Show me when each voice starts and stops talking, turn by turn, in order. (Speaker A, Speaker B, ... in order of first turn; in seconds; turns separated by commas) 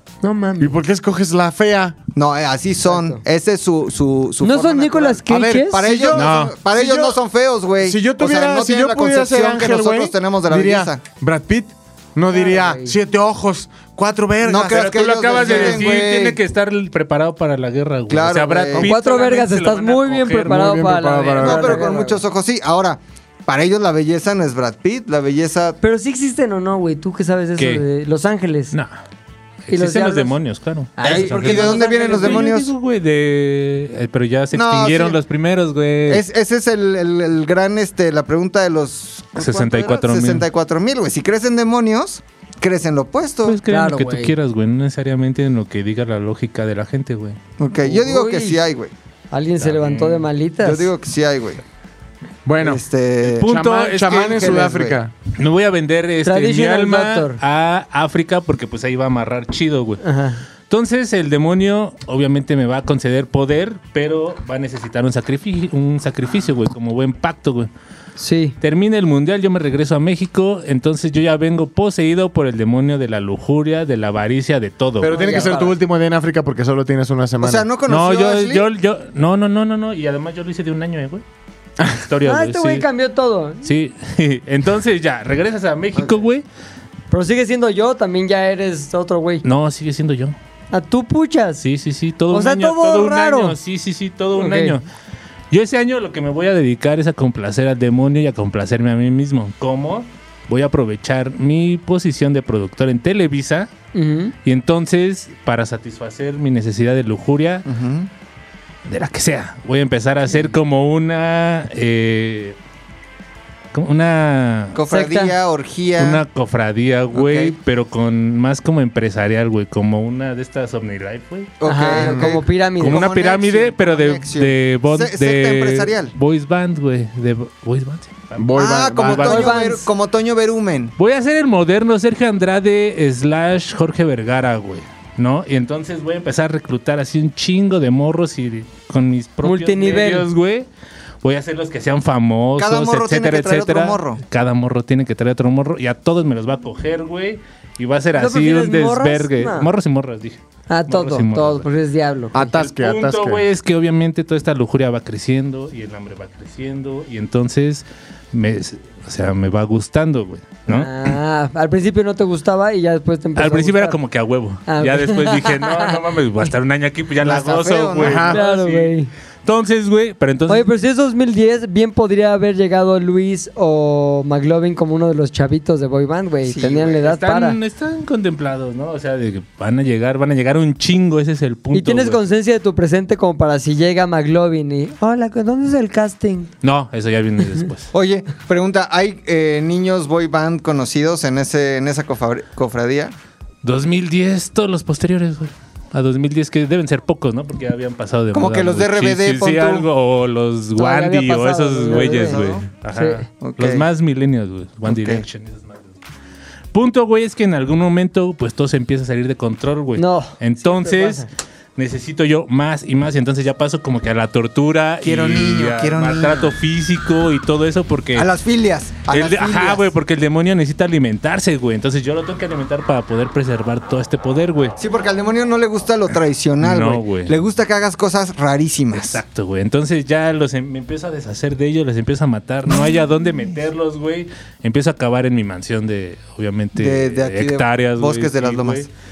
Speaker A: 0.2-0.8, Speaker B: 0.6-2.0, Speaker C: 2.1-11.0, Speaker A: 2.9-3.2, Speaker A: 4.4-6.0, Speaker B: 5.2-7.2, Speaker D: 6.2-6.5, Speaker B: 7.8-15.8, Speaker A: 12.3-13.0, Speaker C: 14.4-16.4, Speaker D: 14.7-20.8, Speaker C: 18.1-18.9, Speaker A: 18.8-22.2, Speaker B: 20.5-21.8, Speaker C: 21.4-25.8, Speaker A: 25.8-28.7, Speaker D: 27.6-27.9, Speaker D: 29.7-36.2, Speaker A: 29.7-30.4, Speaker A: 31.0-32.5, Speaker C: 31.0-32.7, Speaker C: 34.5-35.2, Speaker C: 36.1-43.6, Speaker D: 39.4-40.5, Speaker D: 43.5-47.4, Speaker A: 43.7-44.3, Speaker C: 47.6-48.9, Speaker A: 47.8-48.6, Speaker A: 49.3-50.9, Speaker D: 49.6-50.3, Speaker C: 50.6-51.6, Speaker B: 52.5-52.8, Speaker C: 52.6-55.0, Speaker D: 53.3-54.6, Speaker B: 53.4-55.1, Speaker D: 55.4-60.0, Speaker A: 56.2-57.4, Speaker A: 60.0-60.4, Speaker D: 60.7-67.7, Speaker A: 68.2-68.6, Speaker D: 68.6-75.2, Speaker B: 75.0-77.7, Speaker A: 75.1-75.8, Speaker C: 77.4-78.7, Speaker D: 77.9-81.2, Speaker D: 81.8-82.8, Speaker A: 82.2-83.7, Speaker D: 83.6-86.5, Speaker A: 87.1-89.5, Speaker D: 89.4-90.3, Speaker A: 90.7-91.6, Speaker D: 91.6-94.8, Speaker A: 92.3-93.6, Speaker A: 94.4-94.8, Speaker D: 95.5-103.7, Speaker A: 103.9-104.3, Speaker D: 104.4-107.7, Speaker C: 107.7-108.1, Speaker D: 108.8-112.6, Speaker D: 113.7-114.8, Speaker C: 114.7-116.2, Speaker A: 114.9-115.4, Speaker D: 116.0-121.5, Speaker C: 117.1-117.6, Speaker C: 121.6-126.1, Speaker A: 121.7-123.0, Speaker B: 121.9-122.3, Speaker D: 122.8-129.4, Speaker B: 128.4-129.5, Speaker C: 128.6-130.9, Speaker A: 129.2-129.9, Speaker D: 131.0-140.7, Speaker A: 139.4-140.3, Speaker D: 141.2-151.7, Speaker C: 142.6-144.2, Speaker A: 148.1-149.7, Speaker A: 150.7-152.6, Speaker B: 152.3-153.4, Speaker D: 152.5-161.1, Speaker A: 160.7-164.0, Speaker D: 163.4-168.9, Speaker A: 164.7-166.5, Speaker C: 167.2-168.3, Speaker B: 168.0-168.4, Speaker A: 168.3-169.1, Speaker D: 169.4-170.7, Speaker A: 170.5-177.6, Speaker C: 176.4-176.9, Speaker D: 176.9-182.2, Speaker A: 181.7-186.5, Speaker D: 186.6-187.9, Speaker C: 187.9-193.1, Speaker D: 193.6-206.0, Speaker C: 198.3-199.9, Speaker A: 200.8-203.3, Speaker C: 201.9-202.7, Speaker C: 203.4-203.9, Speaker C: 204.9-205.3, Speaker D: 206.7-218.3, Speaker A: 210.0-211.3, Speaker C: 215.0-216.6, Speaker C: 218.2-219.9, Speaker D: 219.1-224.8, Speaker C: 224.8-229.2, Speaker D: 226.6-227.3, Speaker D: 228.9-238.9, Speaker C: 236.8-238.9